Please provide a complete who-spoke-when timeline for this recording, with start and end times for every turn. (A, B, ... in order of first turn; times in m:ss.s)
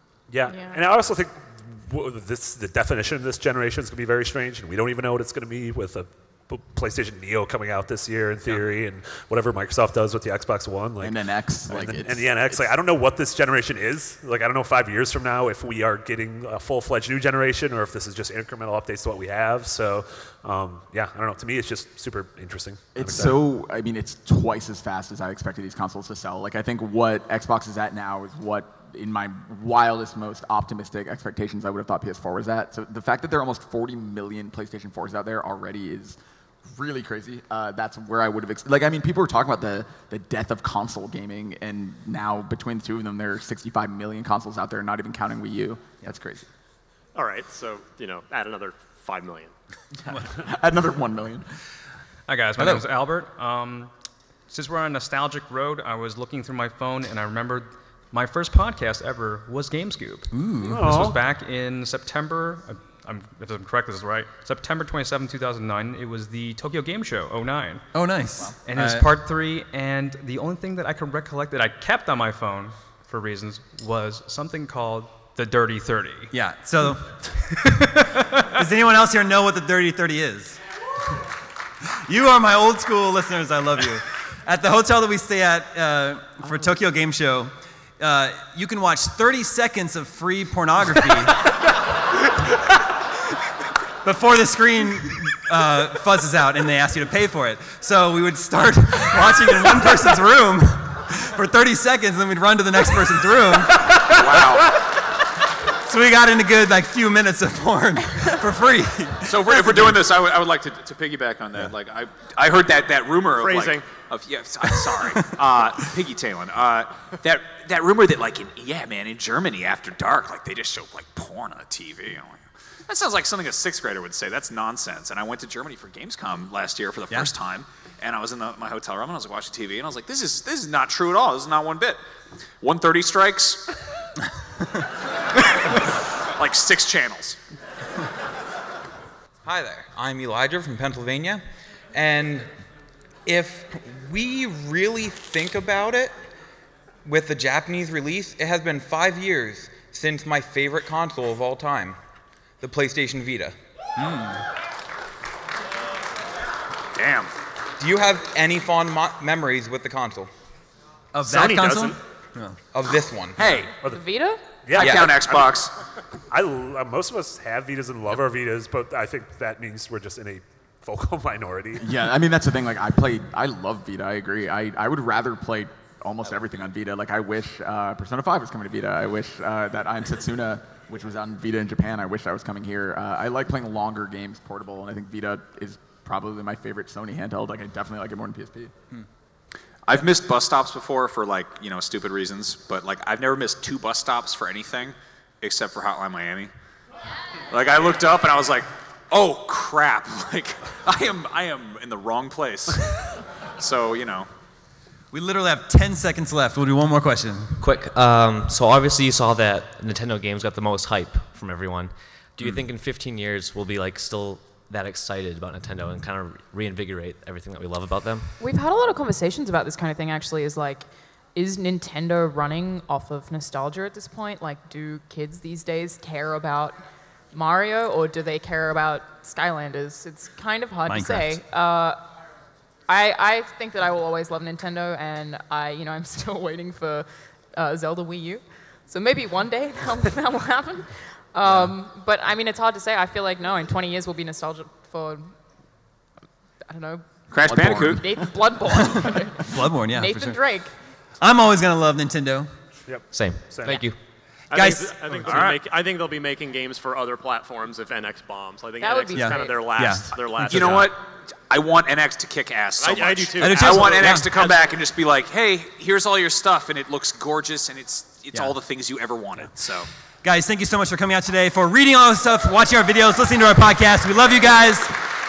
0:00.3-0:23.4 A
0:00.5-0:00.8 B
0:11.0-0:12.7 C
0:23.0-0:46.5 C
0:47.2-0:49.5 D
0:50.0-0:51.5 C
0:52.3-0:53.9 E
0:52.6-0:52.8 F
0:54.5-1:16.3 E
1:00.3-1:00.8 F
1:00.7-1:01.2 A
1:07.9-1:09.1 F
1:16.3-1:17.4 F
1:18.5-1:20.6 F
1:22.0-1:31.4 F
1:34.0-1:44.1 F
1:43.9-1:44.8 G
1:45.7-1:50.1 F
1:49.2-2:12.0 G
1:53.4-1:53.9 D
2:12.6-2:13.8 G
2:16.4-2:17.4 G
2:19.4-2:22.5 H
2:23.3-2:26.2 H
2:27.0-2:32.0 H
2:32.6-2:33.6 H
2:37.0-2:37.3 G
2:37.8-2:40.3 H
2:41.1-2:42.6 F
2:41.2-2:42.0 A
2:42.7-2:43.6 H
2:43.4-2:43.8 G
2:43.9-2:44.6 B
2:44.6-2:45.6 A
2:44.7-2:45.7 G
2:44.8-2:45.2 H
2:46.3-2:51.9 A
2:51.8-3:08.7 C
3:09.9-3:16.5 G
3:17.5-3:24.3 G
3:25.1-3:27.6 F
3:27.6-3:38.3 I
3:38.4-3:52.1 B
3:50.9-3:51.4 F
3:52.9-4:05.4 B
4:01.4-4:01.7 F
4:06.7-4:10.7 B
4:07.3-4:08.1 G
4:07.4-4:08.3 C
4:08.7-4:10.6 F
4:11.2-4:12.5 F
4:12.9-4:13.9 A
4:13.1-4:14.0 I
4:14.5-4:20.9 D
4:14.5-4:15.2 F
4:15.3-4:15.6 G
4:18.8-4:20.0 B
4:19.2-4:20.9 F
4:20.5-4:29.9 G
4:22.8-4:24.8 D
4:23.4-4:24.3 F
4:30.2-4:35.0 F